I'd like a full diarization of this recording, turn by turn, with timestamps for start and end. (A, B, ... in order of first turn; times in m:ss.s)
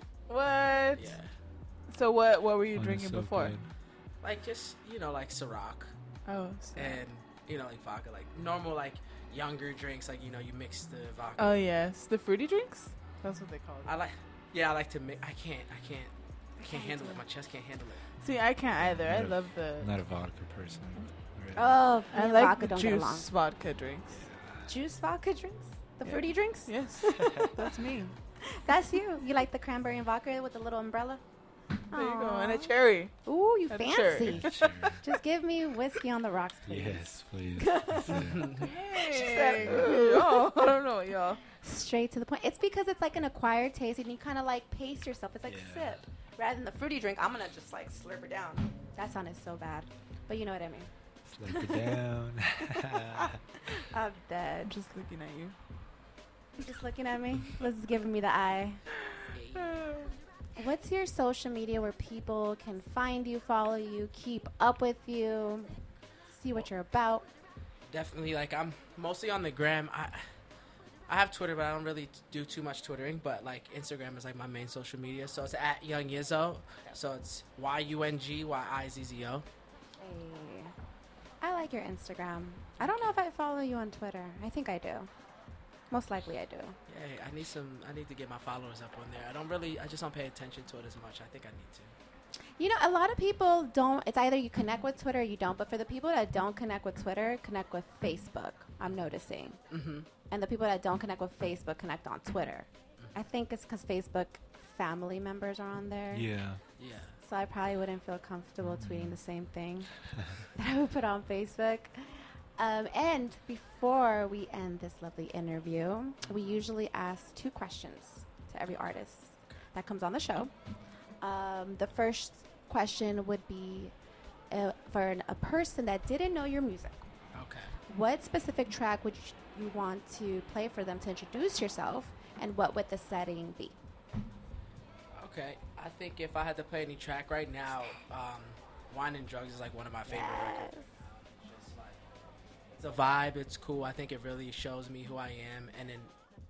0:00.3-0:01.1 A
0:00.9-0:01.3 B
0:01.9-0:03.5 A
0:02.7-0:03.7 C
0:04.2-0:05.9 B
0:06.2-0:07.0 A
0:06.8-0:11.7 B
0:11.4-0:14.0 A
0:13.8-0:18.0 B
0:16.6-0:17.2 D
0:18.2-0:19.9 A
0:18.8-0:21.8 C
0:21.6-0:23.3 D
0:22.1-0:24.2 A
0:24.1-0:24.7 C
0:24.7-0:27.5 D
0:26.0-0:28.2 A
0:27.2-0:27.5 C
0:28.4-0:31.2 D
0:31.9-0:33.1 A
0:31.9-0:38.3 D
0:33.7-0:35.0 A
0:34.2-0:35.0 C
0:36.6-0:38.6 C
0:38.1-0:38.7 B
0:38.6-0:41.4 A
0:39.1-0:40.5 D
0:39.6-0:40.0 C
0:41.6-0:46.8 D
0:45.4-0:46.0 C
0:46.7-0:48.7 E
0:48.9-0:50.9 D
0:51.2-0:53.4 C
0:51.5-0:52.0 D
0:52.7-0:54.7 D
0:54.6-0:55.6 A
0:56.6-0:58.8 D
0:59.3-0:59.8 B
0:59.6-1:00.0 A
1:00.6-1:05.7 D
1:06.3-1:07.3 D
1:07.9-1:10.2 B
1:11.1-1:19.4 B
1:20.0-1:20.7 D
1:21.4-1:25.1 D
1:25.9-1:26.8 D
1:26.9-1:31.9 B
1:32.6-1:39.6 D
1:39.7-1:40.1 B
1:40.3-1:46.3 D
1:46.1-1:46.6 C
1:46.8-1:47.2 B
1:47.2-2:00.5 D
1:48.7-1:49.2 C
2:01.2-2:03.9 D
2:04.5-2:07.0 D
2:07.3-2:07.7 B
2:07.9-2:13.8 D
2:15.1-2:22.0 B
2:20.0-2:20.9 D
2:22.7-2:26.1 B